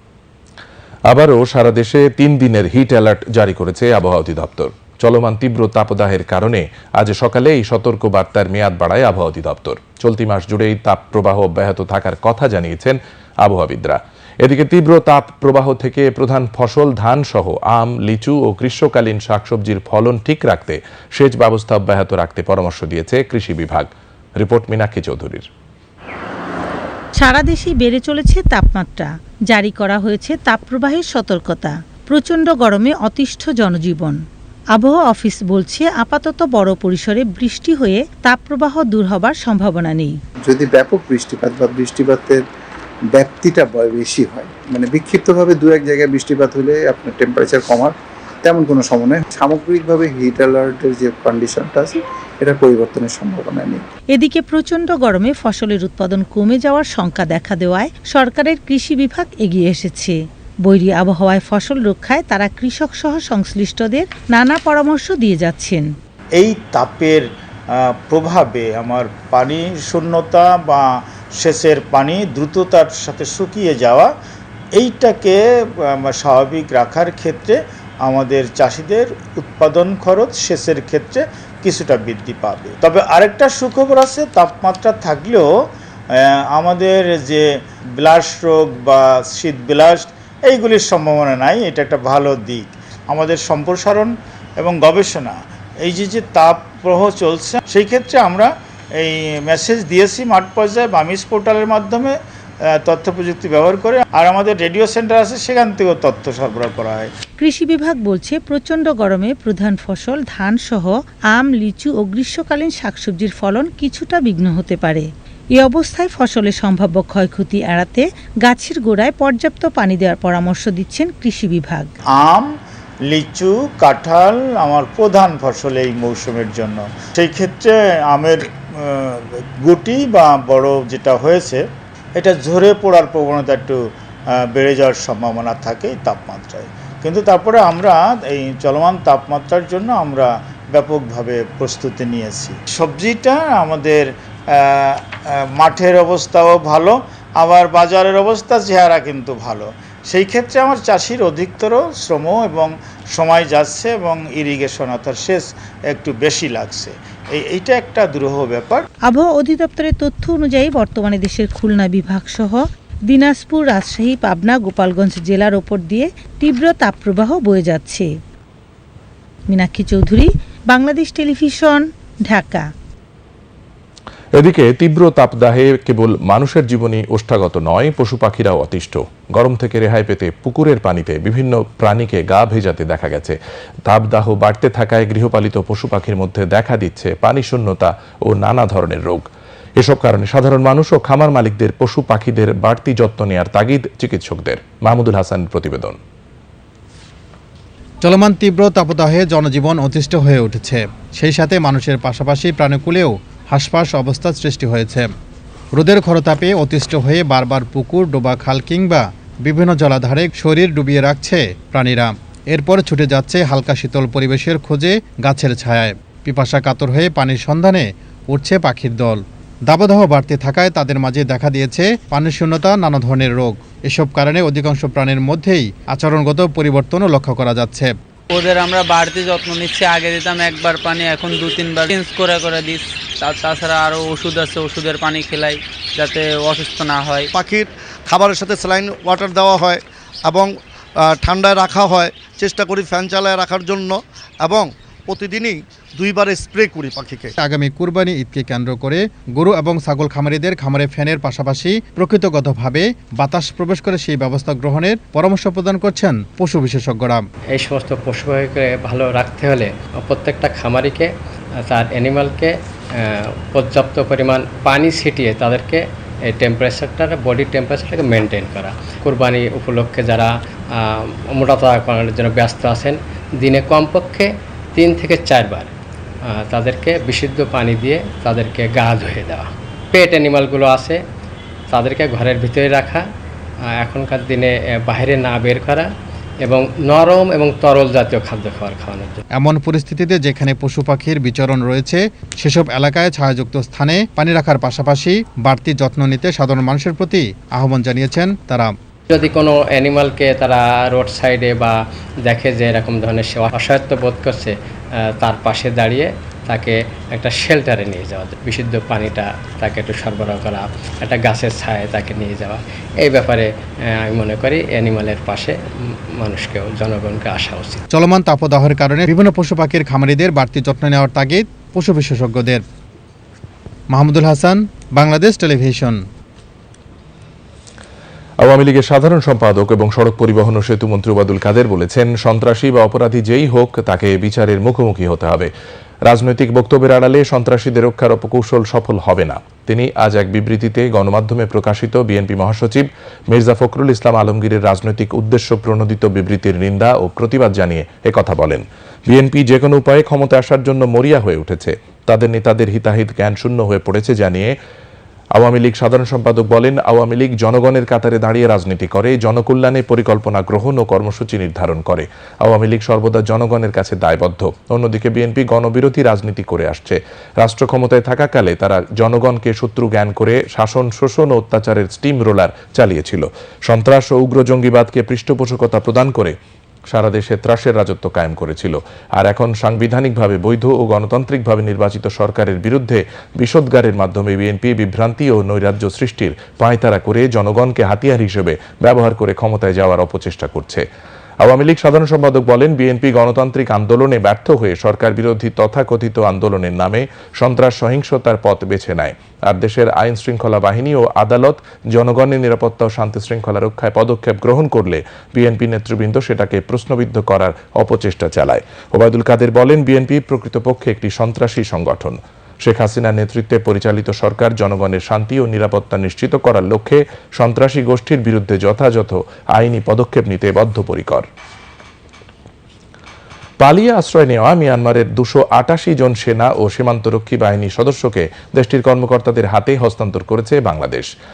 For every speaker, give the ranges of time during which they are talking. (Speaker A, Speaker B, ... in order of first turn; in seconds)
Speaker A: 1.1-25.4, 174.4-183.3, 183.8-189.3, 189.8-196.0, 328.4-335.5, 336.1-354.5, 355.3-376.3, 376.9-390.8, 391.4-421.2, 423.6-431.1
Speaker B: 27.2-34.2, 34.7-40.1, 54.1-65.8, 107.4-121.9, 159.1-168.1, 169.5-172.7
Speaker C: 40.4-42.4, 43.1-53.8
Speaker D: 66.4-74.1, 74.8-85.5, 86.2-102.2, 102.7-107.1, 122.2-122.5, 123.1-131.6, 132.2-133.8, 134.4-158.8
Speaker E: 198.0-205.1, 205.7-227.9, 247.4-257.2, 289.4-298.7, 317.9-322.6, 323.9-326.0
Speaker F: 228.3-237.3
Speaker G: 237.3-247.3
Speaker H: 257.5-261.1, 261.6-275.7, 276.3-281.0, 281.7-283.1, 283.8-285.9, 286.4-289.2, 299.1-317.8